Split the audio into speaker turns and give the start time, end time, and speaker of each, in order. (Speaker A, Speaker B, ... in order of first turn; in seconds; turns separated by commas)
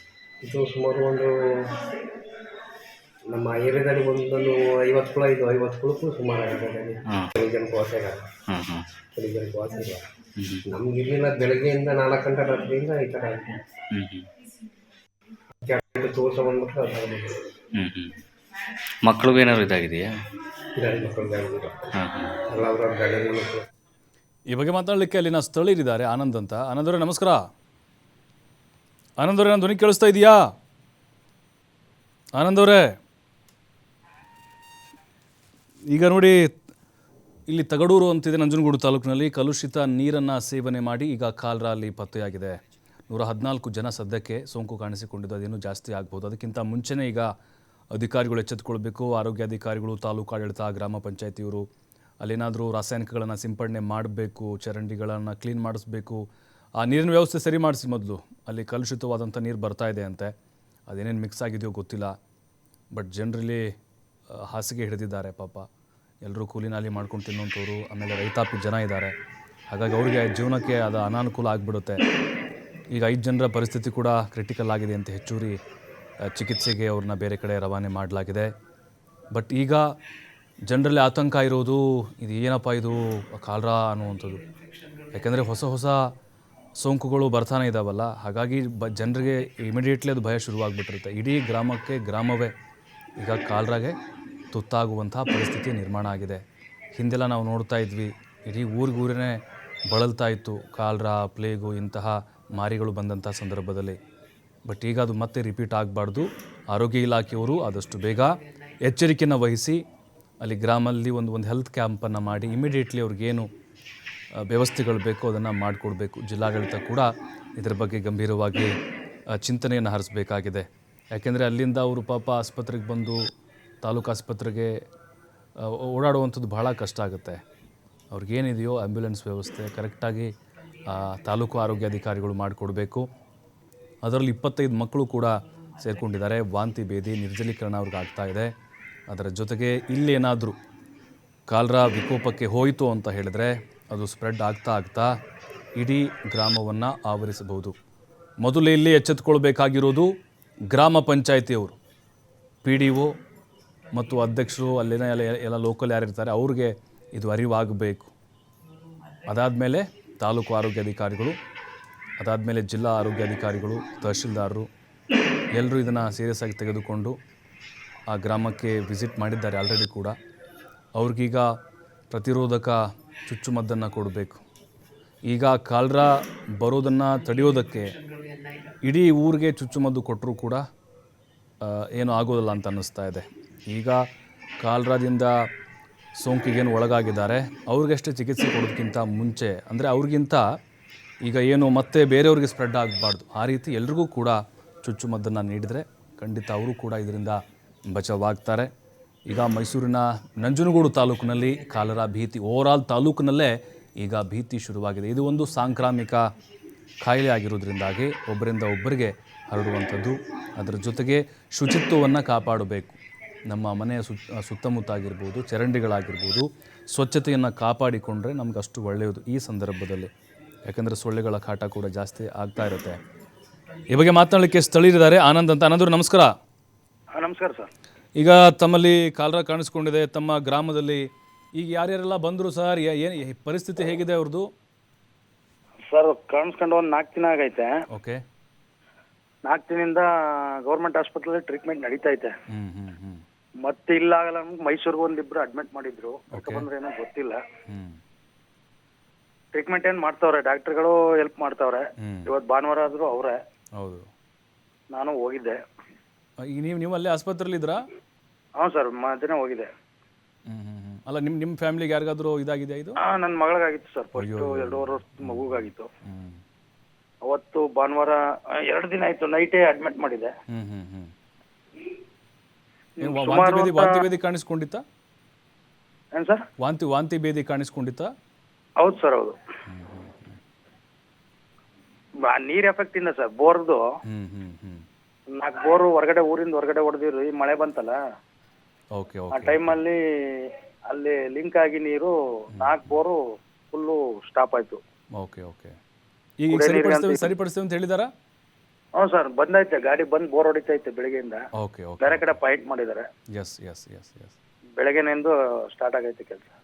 Speaker A: 0.4-1.9, Speaker A: 3.3-8.3, Speaker B: 8.5-8.9, Speaker A: 9.1-10.1, Speaker B: 10.4-10.6, Speaker A: 10.7-13.7, Speaker B: 13.9-14.3, Speaker A: 15.6-17.5, Speaker B: 17.8-18.2, Speaker B: 19.0-20.1, Speaker A: 20.8-21.9, Speaker B: 22.0-22.4, Speaker A: 22.5-23.7, Speaker C: 24.5-27.4, Speaker C: 29.2-30.4, Speaker C: 32.4-32.9, Speaker C: 35.9-36.5, Speaker C: 37.5-42.6, Speaker C: 43.1-47.3, Speaker C: 48.0-51.7, Speaker C: 52.2-56.2, Speaker C: 56.8-60.3, Speaker C: 60.9-62.1, Speaker C: 62.9-63.7, Speaker C: 64.5-65.7, Speaker C: 66.2-69.1, Speaker C: 69.7-72.0, Speaker C: 72.9-75.6, Speaker C: 76.3-78.5, Speaker C: 79.3-79.8, Speaker C: 80.7-84.5, Speaker C: 85.1-86.0, Speaker C: 86.8-92.5, Speaker C: 93.2-94.0, Speaker C: 94.5-96.4, Speaker C: 96.9-99.4, Speaker C: 99.9-104.0, Speaker C: 104.7-109.8, Speaker C: 110.4-113.5, Speaker C: 114.4-118.7, Speaker C: 119.4-123.2, Speaker C: 123.8-124.7, Speaker C: 125.6-127.4, Speaker C: 128.1-130.3, Speaker C: 130.9-133.1, Speaker C: 134.0-138.5, Speaker C: 139.1-140.6, Speaker C: 141.5-145.1, Speaker C: 145.8-147.7, Speaker C: 148.4-150.1, Speaker C: 150.7-151.8, Speaker C: 152.6-153.1, Speaker C: 153.9-158.1, Speaker C: 159.3-161.3, Speaker C: 162.2-164.7, Speaker C: 165.6-167.2, Speaker C: 168.1-170.2, Speaker C: 171.0-171.5, Speaker C: 172.1-174.4, Speaker C: 175.3-177.9, Speaker C: 178.8-180.6, Speaker C: 181.6-184.0, Speaker C: 184.6-185.3, Speaker C: 186.2-190.4, Speaker C: 191.2-197.4, Speaker C: 197.9-198.7, Speaker C: 199.3-206.2, Speaker C: 207.0-220.1, Speaker C: 220.7-223.0, Speaker C: 223.9-226.3, Speaker D: 227.2-227.7, Speaker C: 228.2-234.5, Speaker D: 235.9-237.7, Speaker C: 237.9-238.2, Speaker D: 239.5-240.1, Speaker D: 240.7-242.3, Speaker C: 242.5-243.2, Speaker D: 243.7-247.4, Speaker C: 246.3-246.7, Speaker C: 247.7-248.0, Speaker D: 249.5-253.4, Speaker C: 252.0-252.3, Speaker C: 253.8-254.1, Speaker D: 254.9-255.6, Speaker C: 256.5-257.9, Speaker D: 258.6-259.7, Speaker C: 260.5-263.0, Speaker D: 263.0-265.9, Speaker C: 264.2-266.4, Speaker D: 267.3-270.3, Speaker C: 270.5-271.1, Speaker C: 273.0-274.8, Speaker D: 273.1-274.1, Speaker D: 276.2-276.4, Speaker C: 276.6-278.1, Speaker D: 278.8-279.4, Speaker C: 279.7-280.4, Speaker D: 282.3-283.8, Speaker C: 284.1-284.9, Speaker D: 285.4-288.0, Speaker C: 288.9-289.8, Speaker D: 289.3-293.2, Speaker C: 292.5-292.9, Speaker D: 293.7-294.8, Speaker C: 295.2-295.8, Speaker C: 296.4-298.1, Speaker D: 296.5-297.3, Speaker D: 299.0-301.4, Speaker C: 301.6-302.4, Speaker D: 302.0-303.1, Speaker C: 303.3-304.4, Speaker D: 304.8-306.5